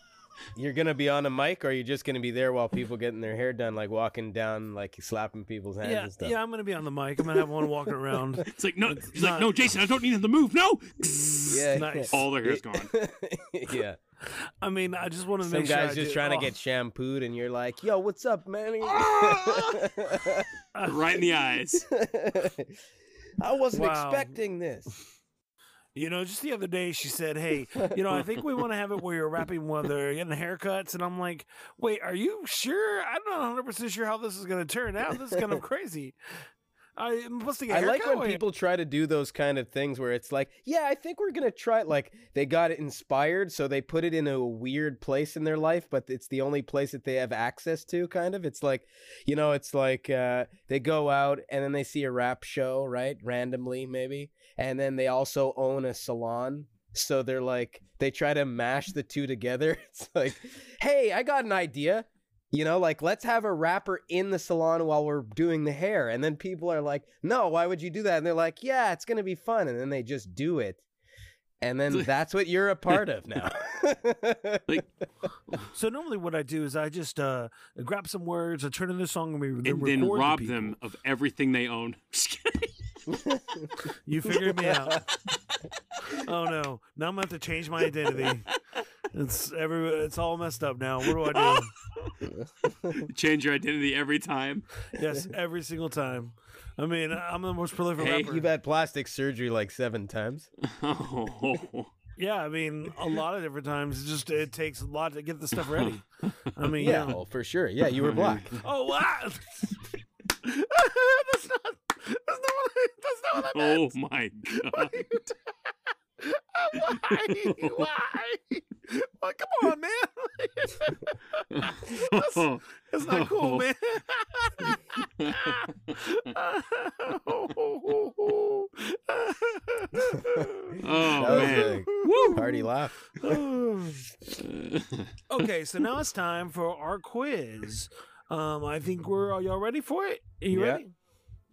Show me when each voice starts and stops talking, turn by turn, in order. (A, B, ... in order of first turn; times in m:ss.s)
0:00.6-0:06.4 A
0:05.8-0:09.6 B
0:08.5-0:12.9 C
0:11.5-0:14.0 A
0:11.7-0:12.2 B
0:14.2-0:16.5 B
0:15.4-0:20.5 A
0:19.0-0:19.6 C
0:20.7-0:21.2 B
0:20.9-0:21.9 C
0:21.9-0:22.8 A
0:23.4-0:24.9 A
0:23.7-0:24.4 B
0:26.0-0:36.2 B
0:37.0-0:38.4 B
0:37.7-1:10.8 A
1:11.6-1:14.8 A
1:15.7-1:20.8 B
1:19.6-1:23.1 C
1:24.0-1:25.1 B
1:26.1-1:28.5 B
1:29.1-1:31.7 B
1:31.3-1:31.6 C
1:32.4-1:33.1 A
1:33.0-1:34.7 C
1:34.9-1:38.4 B
1:38.0-1:38.3 C
1:38.2-1:40.5 A
1:40.6-1:41.9 C
1:42.2-1:47.2 B
1:46.8-1:48.6 A
1:48.0-1:48.5 C
1:48.6-1:49.8 B
1:50.4-1:53.9 B
1:53.5-1:55.0 C
1:54.5-1:55.3 B
1:56.2-2:12.5 B
2:01.5-2:03.6 C
2:05.2-2:05.6 C
2:10.8-2:12.4 C
2:11.1-2:13.4 A
2:13.2-2:14.1 B
2:14.4-2:15.1 C
2:15.3-2:20.9 B
2:20.5-2:20.8 A